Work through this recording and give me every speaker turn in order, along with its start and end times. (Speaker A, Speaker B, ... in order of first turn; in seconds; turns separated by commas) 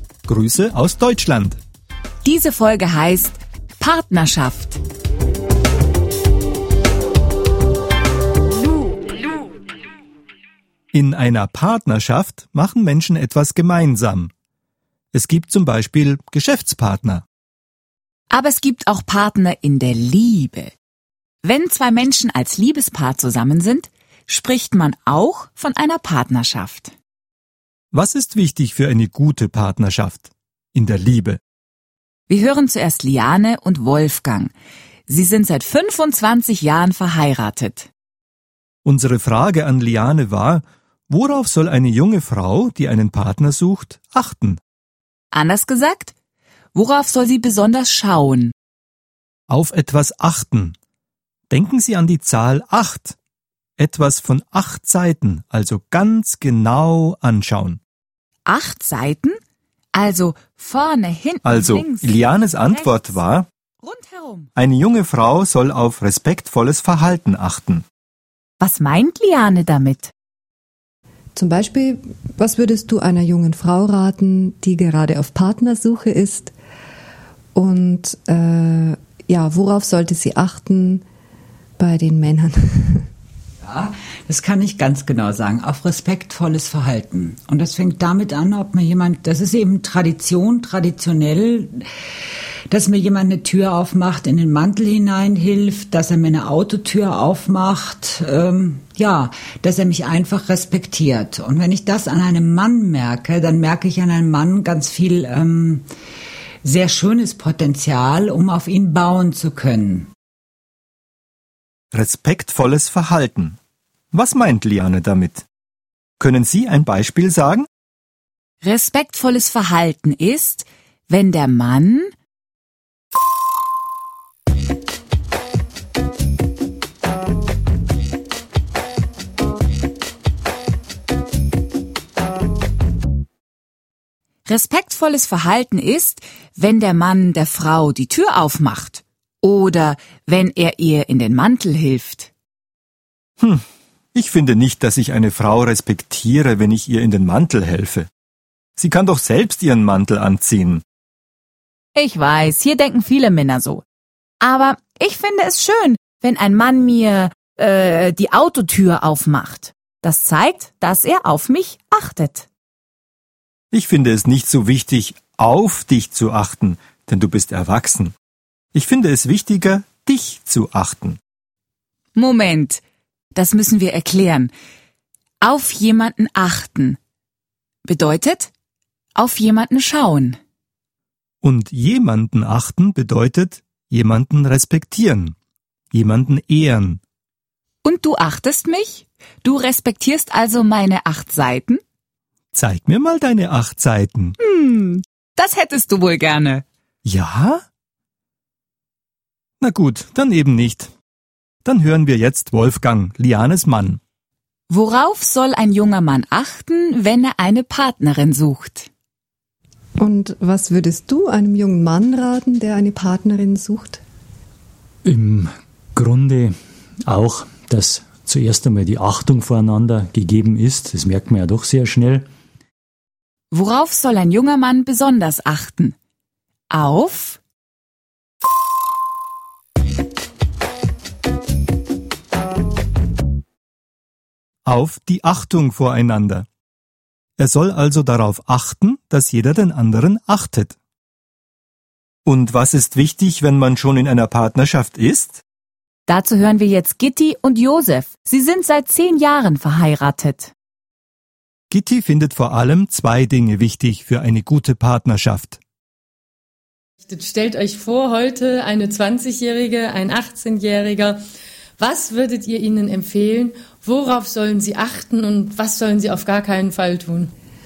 Speaker A: 0.3-1.6, Speaker B: 2.2-4.8, Speaker A: 10.9-14.3, Speaker A: 15.1-17.2, Speaker B: 18.3-20.7, Speaker B: 21.4-26.9, Speaker A: 27.9-31.4, Speaker B: 32.3-34.5, Speaker B: 35.1-37.9, Speaker A: 38.8-44.6, Speaker B: 45.3-46.1, Speaker B: 46.7-48.5, Speaker A: 49.5-50.7, Speaker A: 51.5-53.2, Speaker A: 53.8-57.8, Speaker B: 58.5-59.4, Speaker B: 60.0-63.2, Speaker A: 61.5-63.5, Speaker B: 63.8-64.5, Speaker A: 64.5-67.8, Speaker B: 68.6-70.1, Speaker C: 71.3-76.5, Speaker C: 77.5-81.0, Speaker C: 81.8-83.0, Speaker D: 83.7-91.8, Speaker D: 92.7-105.8, Speaker D: 106.6-110.1, Speaker A: 111.9-113.6, Speaker A: 114.1-115.5, Speaker A: 116.2-117.7, Speaker B: 118.6-122.1, Speaker B: 134.5-142.3, Speaker A: 143.4-148.1, Speaker A: 148.8-150.8, Speaker B: 151.9-153.8, Speaker B: 154.4-162.5, Speaker A: 163.7-168.1, Speaker A: 168.7-171.2, Speaker B: 172.1-172.8, Speaker B: 173.3-174.5, Speaker B: 175.4-177.0, Speaker B: 177.8-178.5, Speaker B: 179.2-180.4, Speaker A: 181.4-185.3, Speaker A: 185.9-187.0, Speaker B: 187.8-191.8, Speaker A: 192.5-194.3, Speaker B: 194.4-196.6, Speaker A: 197.0-197.6, Speaker A: 199.6-200.9, Speaker A: 201.6-204.0, Speaker B: 204.7-208.9, Speaker C: 210.0-214.0, Speaker E: 215.1-216.5, Speaker E: 217.1-222.2, Speaker B: 223.5-225.9, Speaker B: 226.7-227.4, Speaker A: 234.7-236.5, Speaker A: 237.4-240.8, Speaker A: 242.2-245.4, Speaker B: 246.1-250.5, Speaker A: 251.7-255.6, Speaker F: 257.1-261.2, Speaker F: 261.8-267.3